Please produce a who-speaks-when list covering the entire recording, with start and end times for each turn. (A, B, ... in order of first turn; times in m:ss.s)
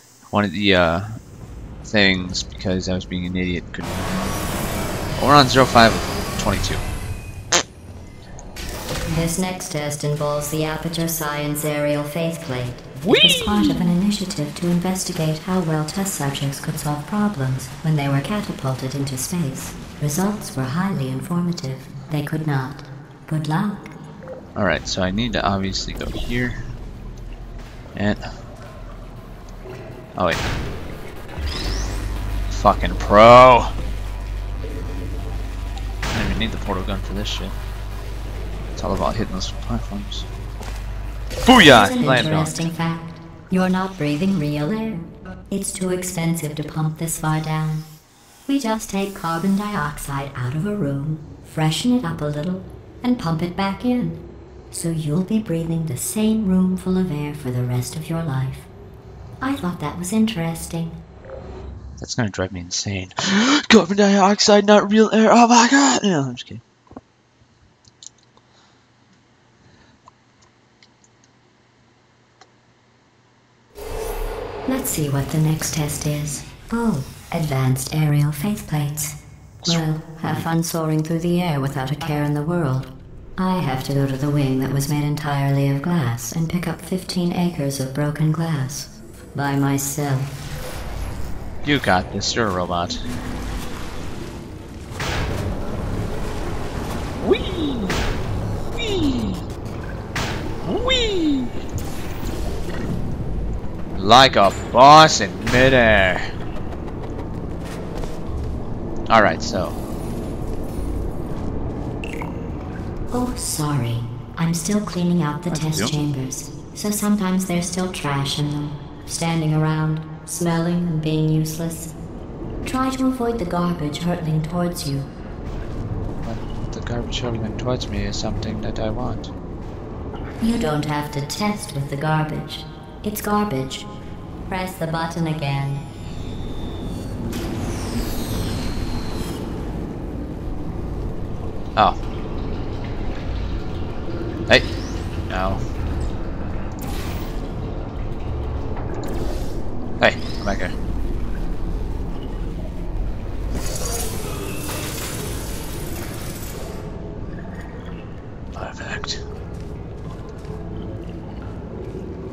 0:00.3-0:01.2 A
0:01.8-0:04.1 A
0:05.2-0:06.8 A
0:09.1-0:23.9 B
0:13.0-0:13.8 A
0:24.5-0:26.6 A
0:27.9-0:28.2 A
0:30.1-0:30.4 A
0:32.5-0:33.7 A
0:36.1-0:37.6 A
0:38.8-0:40.3 A
0:41.4-0:42.7 A
0:41.6-0:47.9 B
0:48.5-0:58.7 B
0:59.4-1:01.0 B
1:02.0-1:06.6 A
1:14.7-1:30.4 B
1:19.6-1:20.5 A
1:31.6-1:33.0 A
1:37.2-1:38.0 A
1:38.8-1:39.4 A
1:40.6-1:41.6 A
1:44.0-1:46.2 A
1:49.1-1:49.8 A
1:53.1-2:01.9 B
1:55.5-1:55.9 A
2:02.6-2:05.1 B
2:06.2-2:09.3 A
2:10.4-2:13.9 B
2:14.5-2:15.8 B
2:25.3-2:25.6 A
2:30.0-2:30.7 A
2:38.6-2:39.2 A